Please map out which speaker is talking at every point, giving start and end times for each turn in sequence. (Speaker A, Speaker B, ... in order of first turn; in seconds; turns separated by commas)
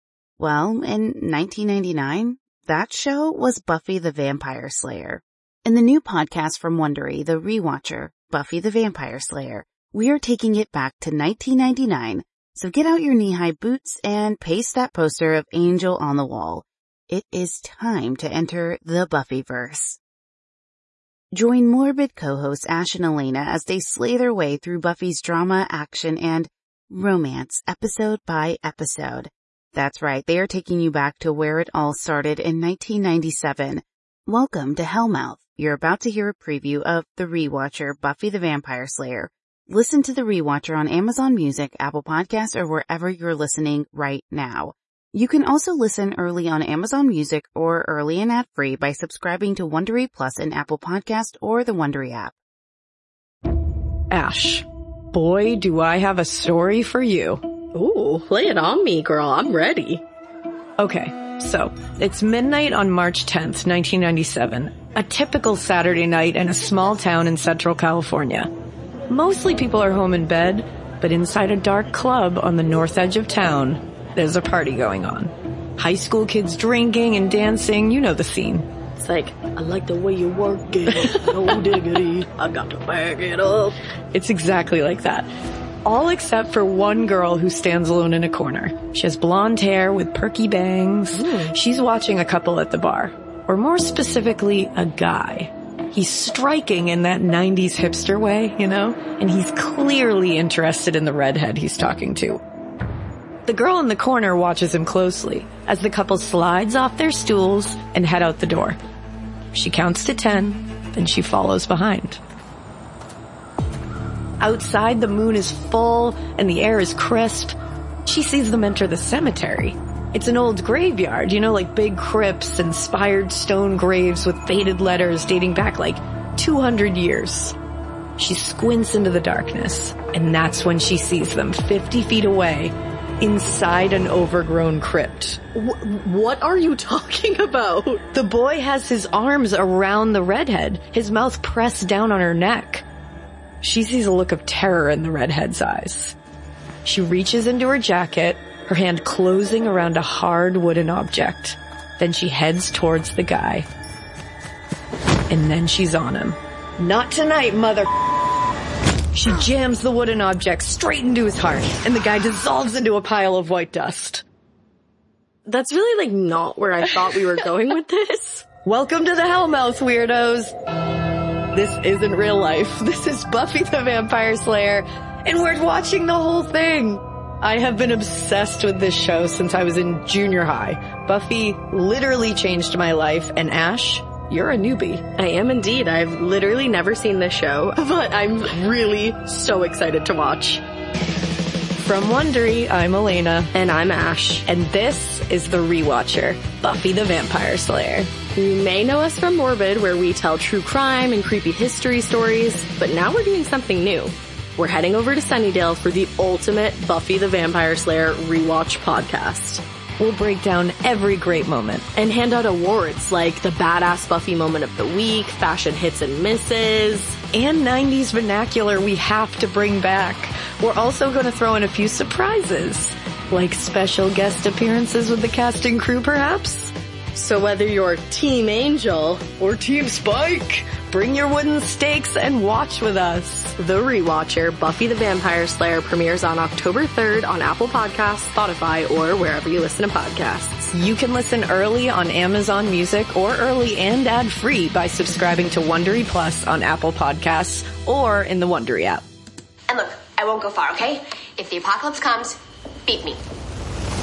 Speaker A: 0.4-20.0, Speaker A: 21.3-52.3, Speaker B: 54.1-57.4, Speaker C: 57.7-60.0, Speaker B: 60.8-68.5, Speaker B: 69.1-78.7, Speaker C: 79.0-83.8, Speaker B: 81.0-81.4, Speaker B: 84.1-85.3, Speaker B: 85.8-102.4, Speaker C: 91.1-91.5, Speaker B: 103.5-108.8, Speaker B: 109.5-112.2, Speaker B: 114.4-127.5, Speaker B: 128.2-135.4, Speaker C: 135.5-138.0, Speaker B: 138.1-142.8, Speaker B: 143.6-146.2, Speaker B: 146.8-153.7, Speaker B: 155.3-157.9, Speaker B: 159.1-164.2, Speaker C: 165.4-168.4, Speaker B: 168.6-170.5, Speaker B: 171.5-185.0, Speaker C: 185.1-190.6, Speaker B: 191.8-193.5, Speaker C: 193.5-194.4, Speaker B: 194.4-198.1, Speaker C: 198.3-209.6, Speaker B: 210.0-211.8, Speaker C: 211.9-217.2, Speaker B: 217.3-226.7, Speaker C: 227.1-229.4, Speaker B: 229.4-233.5, Speaker C: 233.6-240.7, Speaker B: 240.7-249.0, Speaker D: 249.7-253.2